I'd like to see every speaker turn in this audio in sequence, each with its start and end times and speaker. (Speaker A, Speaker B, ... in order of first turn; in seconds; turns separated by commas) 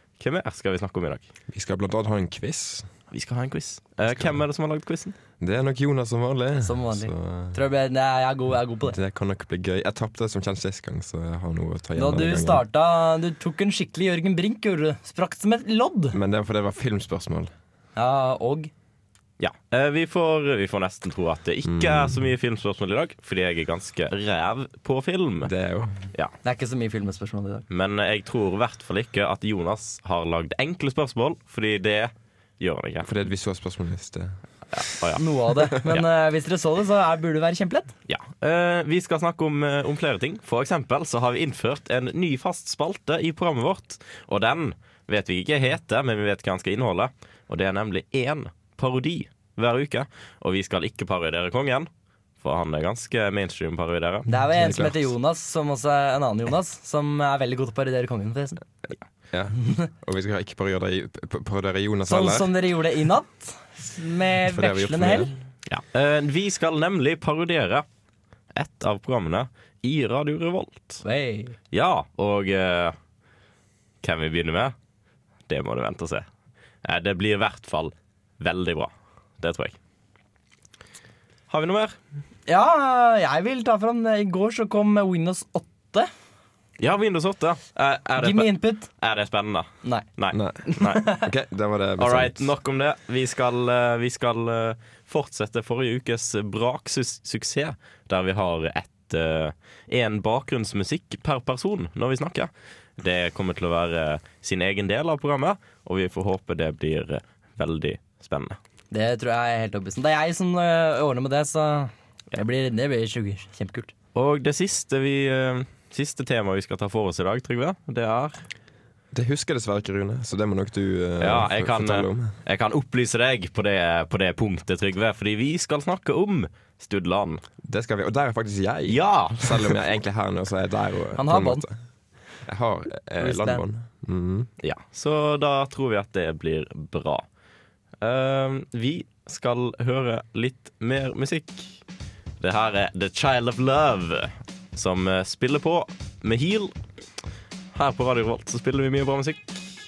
Speaker A: 0.2-1.2, Speaker B: 1.5-2.9, Speaker A: 3.1-5.1, Speaker B: 4.1-4.4, Speaker B: 5.4-7.6, Speaker C: 6.6-9.0, Speaker B: 8.8-12.6, Speaker C: 11.9-16.2, Speaker B: 16.1-17.5, Speaker C: 17.9-18.7, Speaker A: 19.4-25.5, Speaker B: 21.6-22.3, Speaker B: 25.4-26.1, Speaker C: 26.4-27.6, Speaker A: 27.7-33.1, Speaker B: 33.0-34.9, Speaker A: 34.7-35.2, Speaker C: 35.1-37.9, Speaker A: 38.1-51.9, Speaker A: 52.4-54.3, Speaker C: 54.3-58.6, Speaker B: 54.4-55.1, Speaker B: 59.3-62.5, Speaker C: 59.6-59.9, Speaker C: 62.1-65.3, Speaker B: 64.4-65.3, Speaker A: 65.7-67.8, Speaker A: 68.5-71.0, Speaker C: 71.0-71.5, Speaker A: 71.7-73.0, Speaker A: 74.0-74.7, Speaker A: 75.5-76.2, Speaker A: 76.8-79.7, Speaker A: 81.5-82.0, Speaker C: 82.5-86.1, Speaker A: 86.8-91.0, Speaker C: 88.2-88.9, Speaker B: 90.3-92.5, Speaker C: 90.6-91.2, Speaker A: 92.0-108.6, Speaker C: 108.9-113.9, Speaker A: 114.1-118.4, Speaker B: 119.1-122.3, Speaker A: 121.2-127.4, Speaker B: 127.6-131.8, Speaker A: 128.9-129.8, Speaker C: 131.2-131.6, Speaker B: 132.4-134.5, Speaker C: 133.2-133.6, Speaker A: 134.6-137.2, Speaker A: 138.0-141.8, Speaker A: 142.4-146.7, Speaker A: 147.7-149.7